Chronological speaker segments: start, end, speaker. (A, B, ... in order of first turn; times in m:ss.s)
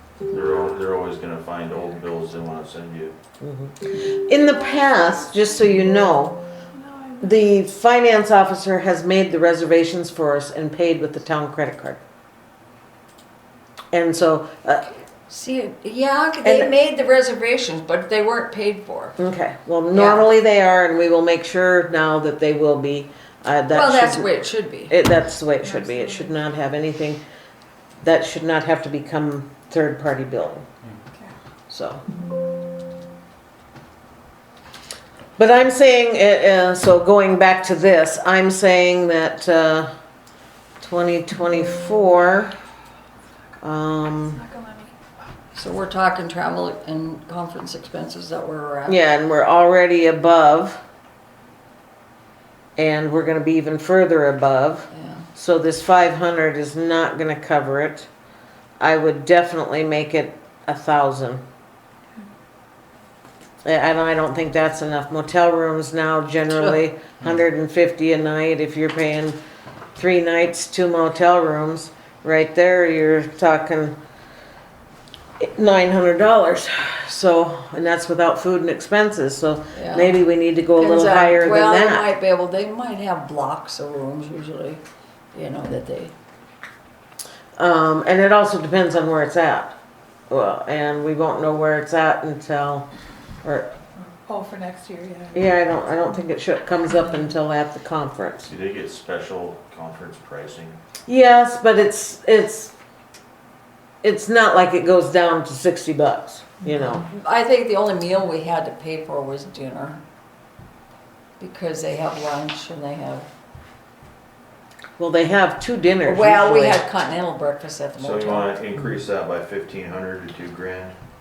0:00.3-0:03.1 A
0:03.4-0:06.4 B
0:06.8-0:07.5 C
0:07.2-0:12.0 B
0:13.9-0:14.9 B
0:15.3-0:19.2 D
0:16.4-0:16.7 B
0:19.2-0:24.3 B
0:19.9-0:20.3 D
0:23.7-0:24.9 D
0:24.8-0:27.2 B
0:25.6-0:26.3 C
0:28.0-0:30.6 B
0:31.7-0:32.0 B
0:35.4-0:39.9 B
0:40.8-0:42.5 B
0:43.6-0:44.4 B
0:44.4-0:44.9 C
0:45.5-0:49.0 D
0:48.9-0:50.8 B
0:52.8-0:58.1 B
0:54.9-0:55.2 D
0:58.8-1:01.4 B
1:03.6-1:09.4 B
1:10.0-1:14.0 B
1:15.4-1:22.1 B
1:19.7-1:20.2 D
1:20.8-1:24.8 D
1:25.3-1:26.1 D
1:27.6-1:29.7 B
1:30.3-1:32.8 B
1:34.2-1:35.5 C
1:35.3-1:38.5 B
1:38.5-1:40.8 A
1:41.1-1:42.7 B
1:44.0-1:47.0 B
1:47.1-1:50.0 D
1:51.4-1:53.3 D
1:55.0-1:56.8 B
1:56.0-1:58.5 D
1:58.0-2:00.9 A